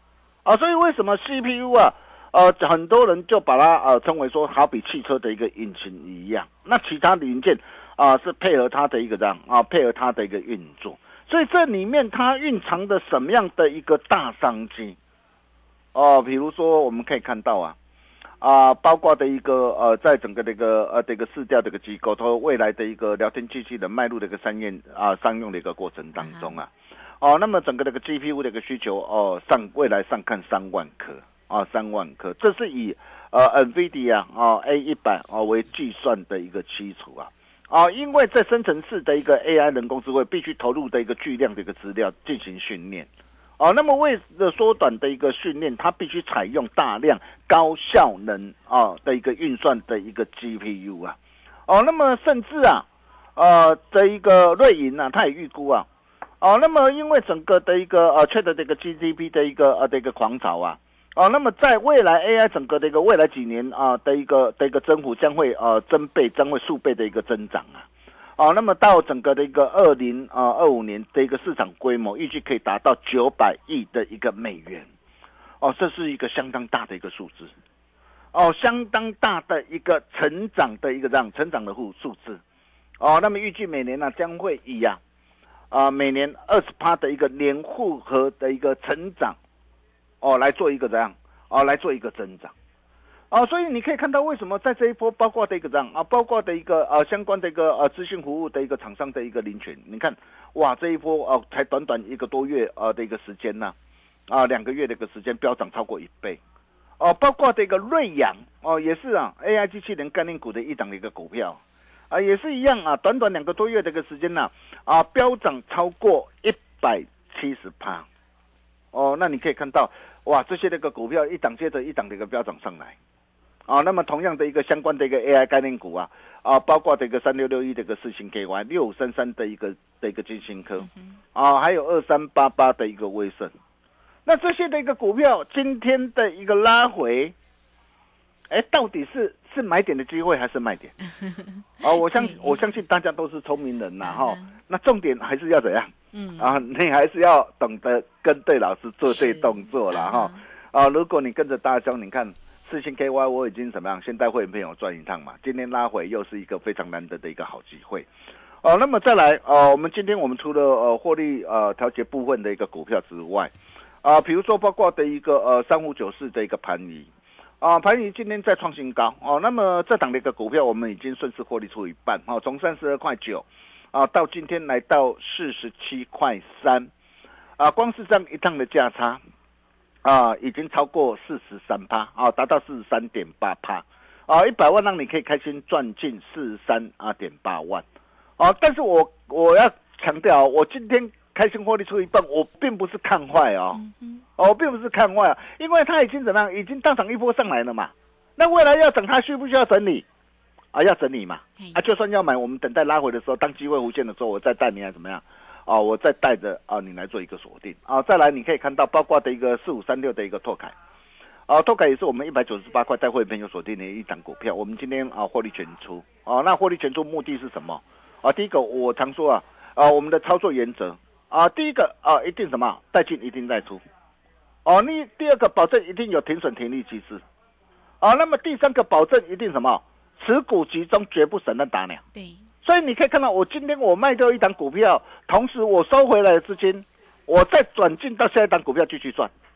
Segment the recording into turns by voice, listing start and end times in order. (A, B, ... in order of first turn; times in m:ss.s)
0:00.4-0:15.0 A
0:15.9-0:17.8 A
0:18.4-0:26.7 A
0:26.2-0:26.6 B
0:27.2-0:51.2 A
0:51.7-0:55.9 A
0:56.4-1:07.8 A
1:08.4-1:14.9 A
1:15.6-1:17.5 A
1:18.3-1:22.4 A
1:23.0-1:25.0 A
1:25.7-1:29.4 A
1:30.2-1:32.5 A
1:33.3-1:43.7 A
1:44.3-1:46.4 A
1:47.0-1:58.0 A
1:58.9-2:02.9 A
2:03.7-2:13.5 A
2:14.2-2:17.3 A
2:18.5-2:20.9 A
2:21.1-2:22.6 B
2:21.8-2:38.1 A
2:24.0-2:24.5 B
2:26.1-2:26.6 B
2:29.1-2:30.4 B
2:38.6-2:43.5 A
2:44.0-2:47.1 A
2:47.6-2:56.9 A
2:57.6-2:59.2 A
3:00.0-3:07.8 A
3:08.4-3:13.8 A
3:13.7-3:14.2 B
3:14.4-3:20.0 A
3:20.7-3:30.7 A
3:31.5-3:43.8 A
3:44.6-3:47.2 A
3:48.0-3:52.0 A
3:52.1-3:52.4 B
3:52.6-3:59.3 A